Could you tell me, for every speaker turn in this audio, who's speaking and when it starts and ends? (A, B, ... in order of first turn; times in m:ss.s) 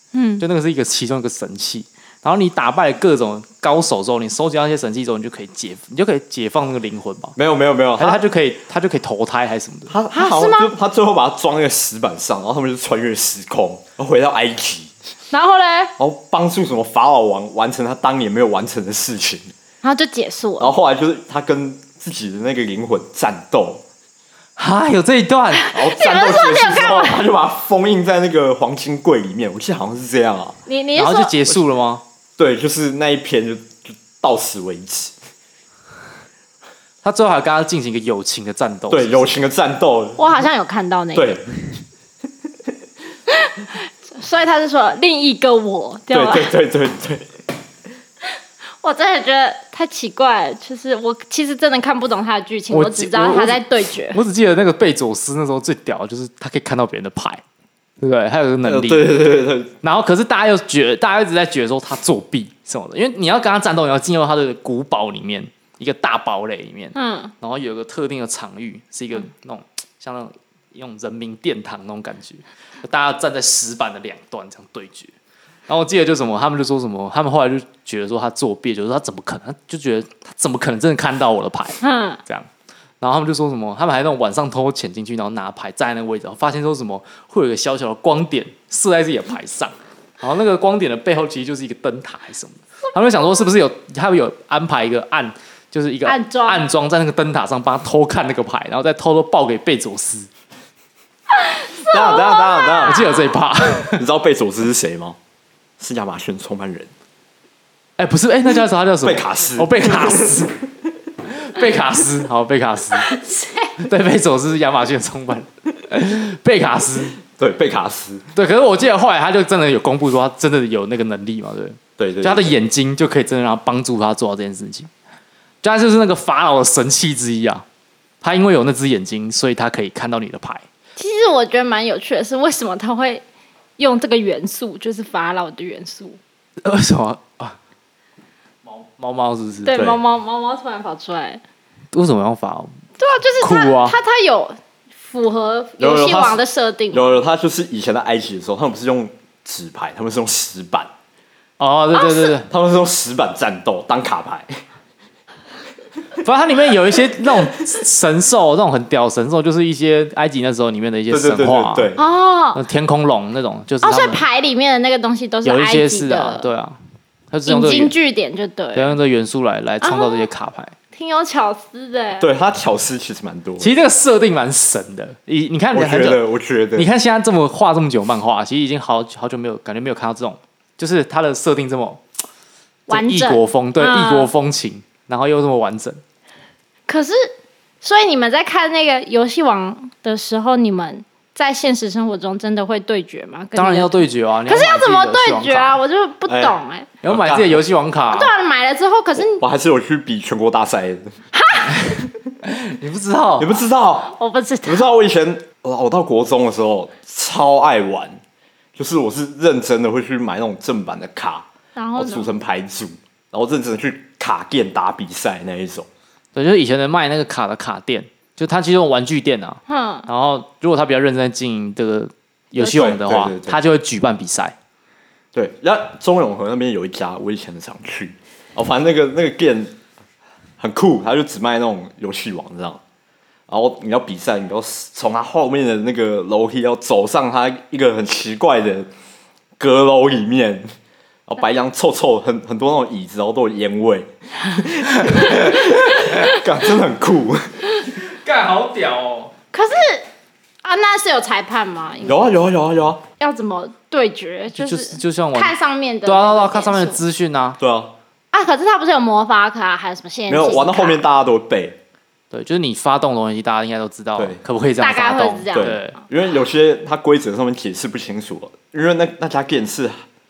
0:00.1-0:00.4 A
0:00.4-0:07.4 B
0:07.4-0:08.2 C
0:08.0-0:10.0 B
0:09.9-0:14.9 C
0:10.1-0:10.7 A
0:15.3-0:16.0 A
0:16.0-0:19.5 C
0:19.8-0:20.8 A
0:20.6-0:23.8 C
0:24.6-0:25.7 B
0:25.6-0:27.2 A
0:25.7-0:30.6 C
0:30.7-0:31.4 A
0:31.0-0:32.0 B
0:32.4-0:35.2 C
0:37.0-0:39.3 B
0:38.9-0:40.3 C
0:40.2-0:41.4 A
0:41.1-0:41.4 C
0:43.3-0:46.5 A
0:46.1-0:47.3 C
0:48.8-0:54.2 A
0:52.7-0:57.4 B
0:58.0-0:59.2 B
0:58.6-0:59.7 C
0:59.8-1:15.1 B
1:07.0-1:07.3 A
1:15.7-1:22.5 B
1:21.8-1:22.2 A
1:23.0-1:40.3 B
1:36.1-1:36.6 A
1:41.4-1:43.3 A
1:41.8-1:43.1 C
1:42.8-1:44.0 B
1:43.9-1:45.2 C
1:45.8-1:46.9 C
1:48.0-1:50.6 B
1:49.0-1:50.5 C
1:51.3-1:53.1 B
1:53.0-1:53.8 A
1:53.8-1:57.2 B
1:57.2-1:58.3 C
1:58.4-2:04.9 B
2:02.0-2:02.6 C
2:05.6-2:07.6 B
2:08.2-2:10.6 B
2:11.0-2:13.2 A
2:13.8-2:16.2 A
2:16.6-2:17.6 B
2:18.6-2:19.8 B
2:19.6-2:21.4 A
2:19.8-2:20.0 C
2:21.9-2:22.8 B
2:23.0-2:27.2 A
2:23.4-2:24.0 B
2:25.8-2:30.9 C
2:31.6-2:32.5 B
2:31.9-2:32.4 A
2:32.5-2:34.6 C
2:36.2-2:41.9 B
2:41.1-2:42.0 C
2:42.0-2:42.6 A
2:42.6-2:44.2 B
2:43.8-2:46.5 A
2:45.4-2:46.8 B
2:47.3-2:48.0 B
2:47.5-2:49.0 A
2:48.7-2:50.8 B
2:49.8-2:50.3 A
2:50.9-2:52.3 A
2:52.2-2:53.7 C
2:53.6-2:56.2 B
2:55.7-2:56.9 C
2:56.8-3:02.0 B
3:02.9-3:04.3 A
3:02.9-3:06.0 B
3:06.9-3:07.3 A
3:07.8-3:16.9 A
3:13.6-3:15.8 B
3:16.3-3:17.6 C
3:17.0-3:18.3 B
3:18.1-3:19.4 A
3:19.2-3:21.2 C
3:21.4-3:21.9 A
3:21.7-3:23.5 B
3:23.4-3:24.1 C
3:24.0-3:24.9 A
3:24.6-3:28.2 C
3:28.8-3:35.9 C
3:31.8-3:32.3 A
3:36.4-3:44.6 B
3:39.7-3:40.1 A
3:42.6-3:43.6 C
3:45.3-3:49.8 C
3:50.6-3:52.8 C
3:53.5-3:58.9 C
3:59.6-4:00.7 C
4:01.3-4:07.6 C
4:08.0-4:09.3 B
4:09.5-4:10.1 A
4:10.6-4:12.4 A
4:12.0-4:13.0 C
4:13.2-4:17.0 A
4:14.5-4:15.5 B
4:16.1-4:17.6 B
4:17.6-4:18.0 C
4:18.3-4:21.0 A
4:20.3-4:21.8 C
4:22.3-4:26.0 B
4:24.8-4:25.8 A
4:25.6-4:30.0 C